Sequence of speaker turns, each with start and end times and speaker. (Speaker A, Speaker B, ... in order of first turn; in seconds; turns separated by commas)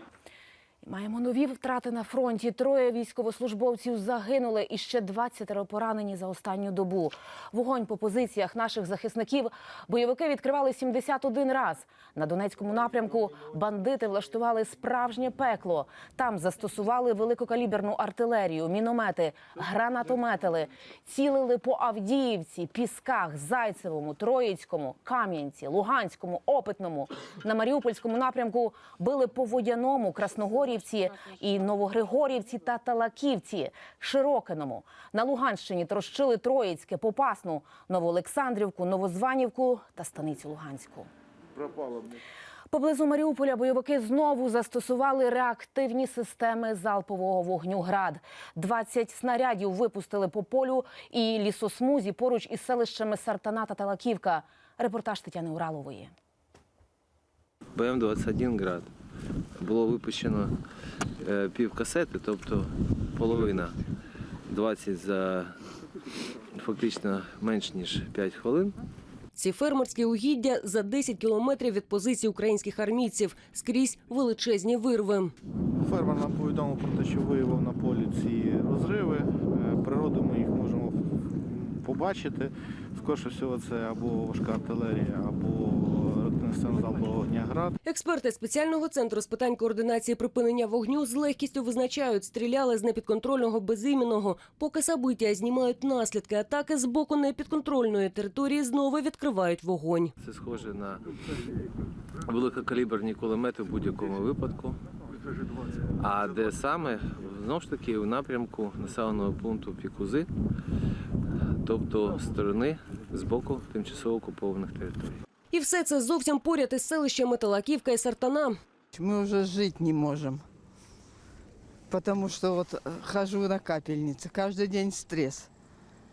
Speaker A: 0.8-41.1, Speaker A: 42.7-56.1, Speaker B: 57.8-58.9, Speaker B: 59.6-60.5, Speaker B: 61.2-63.8, Speaker B: 64.5-65.6, Speaker B: 66.5-68.8, Speaker C: 69.3-75.3, Speaker D: 75.8-81.0, Speaker D: 81.5-87.7, Speaker C: 87.8-100.1, Speaker B: 100.2-101.0, Speaker B: 102.3-104.8, Speaker B: 106.0-110.3, Speaker B: 111.6-115.2, Speaker C: 115.5-118.6, Speaker E: 118.9-120.4, Speaker E: 121.9-125.5